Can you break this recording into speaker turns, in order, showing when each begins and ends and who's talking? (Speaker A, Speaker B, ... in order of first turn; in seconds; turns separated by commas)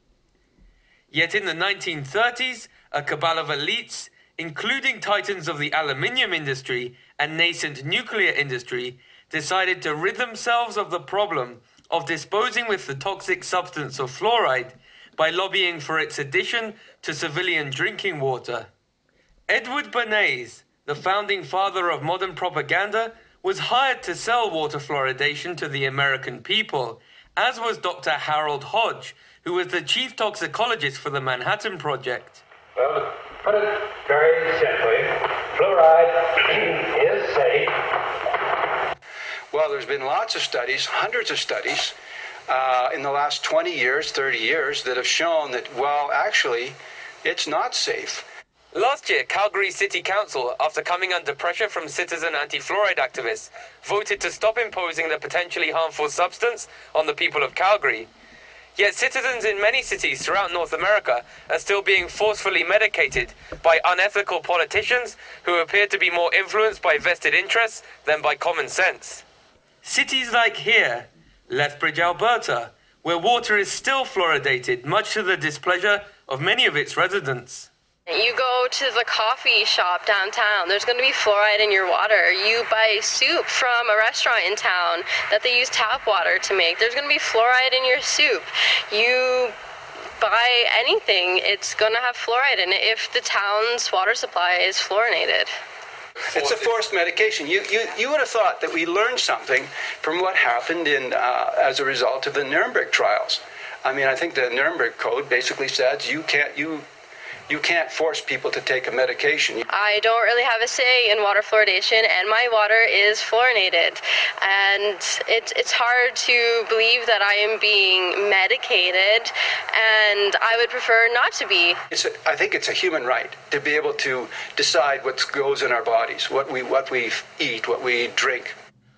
Speaker A: 1.1-18.7, Speaker A: 19.5-32.4, Speaker B: 32.8-37.7, Speaker C: 39.5-41.9, Speaker C: 42.5-48.2, Speaker A: 48.7-58.1, Speaker A: 58.8-69.2, Speaker A: 69.8-77.7, Speaker D: 78.1-89.5, Speaker D: 90.2-95.5, Speaker C: 96.3-106.8, Speaker C: 107.5-109.7, Speaker D: 109.7-121.8, Speaker C: 121.9-128.5